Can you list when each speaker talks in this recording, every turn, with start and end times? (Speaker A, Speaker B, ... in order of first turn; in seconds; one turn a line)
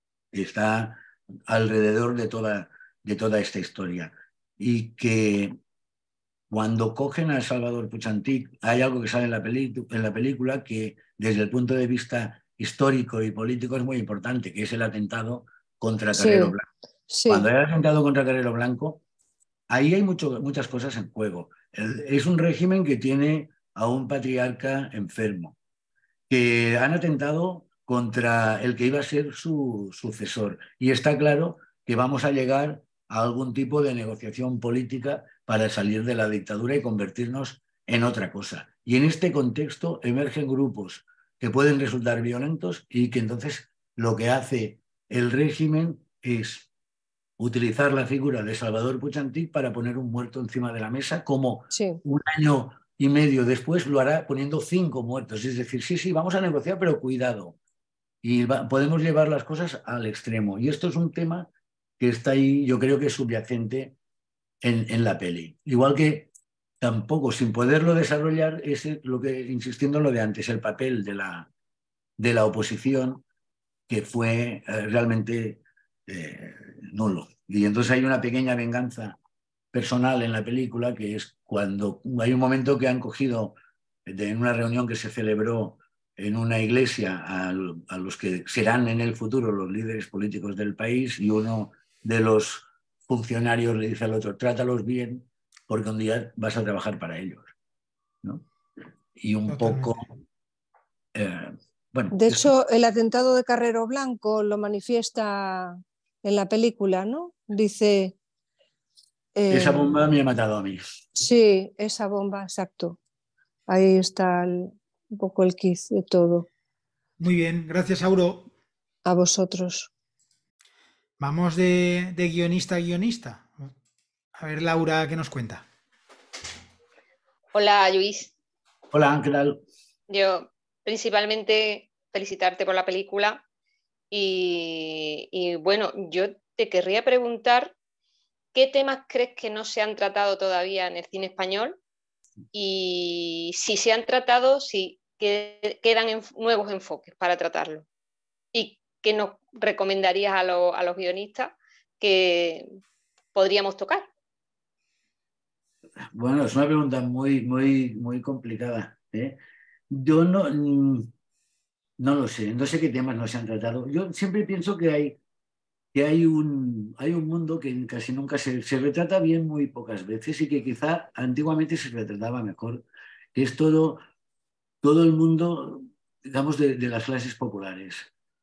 Speaker A: 0.3-5.5
Speaker A: 6.5-16.7
Speaker B: 16.1-16.6
Speaker B: 17.1-17.5
Speaker A: 17.3-19.0
Speaker A: 19.7-25.5
Speaker A: 26.3-46.7
Speaker A: 47.4-57.5
Speaker B: 51.7-52.0
Speaker A: 58.2-63.9
Speaker A: 64.6-66.3
Speaker A: 66.8-71.5
Speaker A: 72.2-73.2
Speaker A: 73.9-79.2
Speaker A: 79.7-97.5
Speaker A: 99.2-100.1
Speaker C: 99.5-100.1
Speaker A: 101.1-102.5
Speaker B: 102.1-108.1
Speaker B: 109.3-110.0
Speaker A: 109.5-111.0
Speaker B: 111.1-113.0
Speaker B: 113.7-116.5
Speaker C: 117.2-118.5
Speaker B: 119.0-119.9
Speaker C: 121.2-123.7
Speaker C: 124.3-125.6
Speaker D: 127.5-128.3
Speaker A: 128.9-129.6
Speaker D: 130.1-133.4
Speaker D: 134.1-137.7
Speaker D: 138.5-141.8
Speaker D: 142.5-147.8
Speaker D: 148.5-152.7
Speaker D: 153.3-154.1
Speaker A: 156.1-159.4
Speaker A: 159.9-161.1
Speaker A: 162.0-165.2
Speaker A: 165.9-174.0
Speaker A: 174.8-178.1